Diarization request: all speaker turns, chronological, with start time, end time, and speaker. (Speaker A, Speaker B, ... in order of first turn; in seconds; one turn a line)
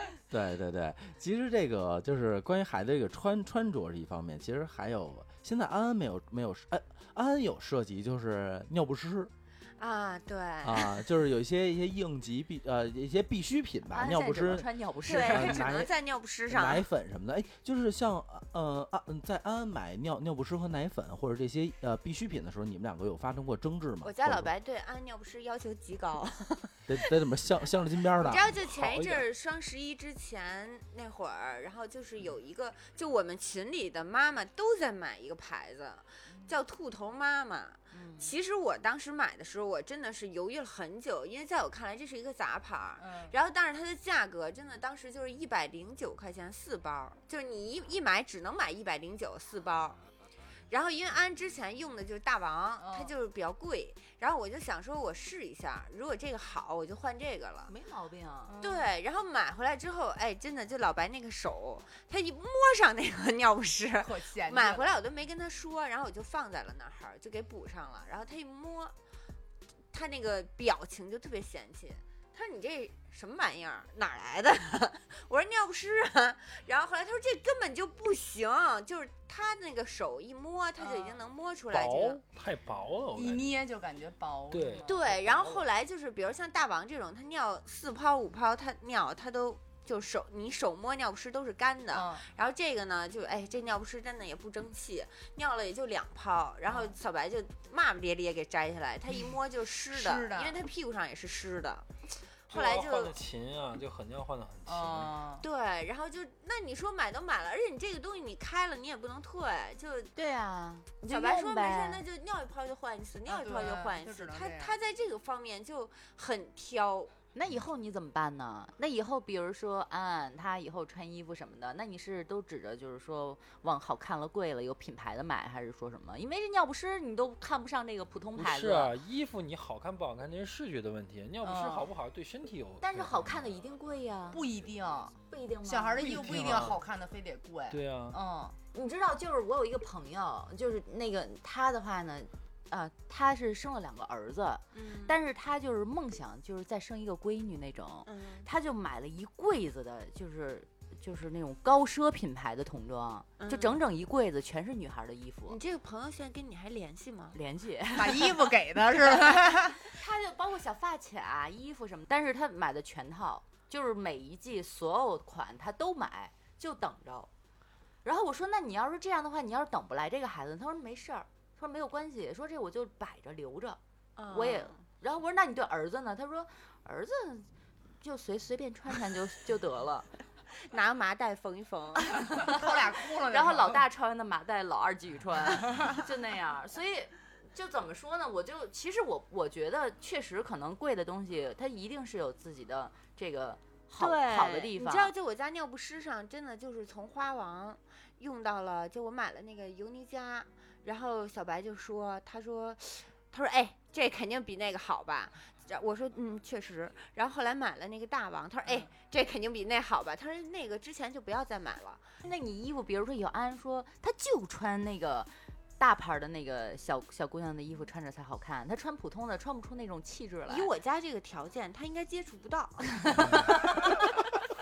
Speaker A: 0.3-9.3
Speaker B: 9.8-11.0
Speaker A: 10.6-15.9
Speaker C: 13.9-15.8
Speaker B: 15.1-16.8
Speaker A: 16.5-24.5
Speaker B: 24.0-27.0
Speaker A: 26.9-28.6
Speaker B: 28.2-50.0
Speaker D: 28.6-29.2
Speaker C: 37.9-38.3
Speaker E: 43.0-43.4
Speaker B: 50.7-57.7
Speaker E: 52.8-53.1
Speaker C: 57.7-58.6
Speaker E: 58.5-58.9
Speaker B: 58.6-68.9
Speaker E: 64.0-65.0
Speaker B: 69.9-82.2
Speaker E: 80.8-81.2
Speaker D: 81.7-83.5
Speaker E: 83.1-85.1
Speaker D: 84.5-85.7
Speaker B: 84.9-101.9
Speaker E: 91.9-92.3
Speaker E: 96.7-96.9
Speaker E: 99.9-100.6
Speaker B: 102.5-103.2
Speaker D: 102.5-105.2
Speaker E: 104.7-105.5
Speaker B: 105.4-110.1
Speaker C: 110.2-112.0
Speaker B: 111.1-117.1
Speaker E: 113.3-114.8
Speaker C: 117.3-128.9
Speaker D: 128.4-133.4
Speaker E: 131.4-131.9
Speaker C: 132.8-134.4
Speaker E: 134.3-138.6
Speaker C: 135.3-136.6
Speaker D: 136.0-136.8
Speaker D: 137.7-138.2
Speaker C: 138.7-155.6
Speaker B: 144.7-145.2
Speaker B: 148.1-148.5
Speaker B: 153.4-153.8
Speaker B: 155.5-157.4
Speaker C: 157.3-158.5
Speaker E: 158.0-159.9
Speaker C: 159.8-167.3
Speaker C: 168.0-177.5
Speaker B: 174.2-174.8
Speaker C: 178.0-180.1
Speaker B: 180.7-182.2
Speaker E: 182.3-183.8
Speaker C: 182.3-182.6
Speaker C: 183.3-195.1
Speaker B: 194.0-212.1
Speaker C: 212.2-220.7
Speaker B: 220.5-223.2
Speaker C: 223.1-224.0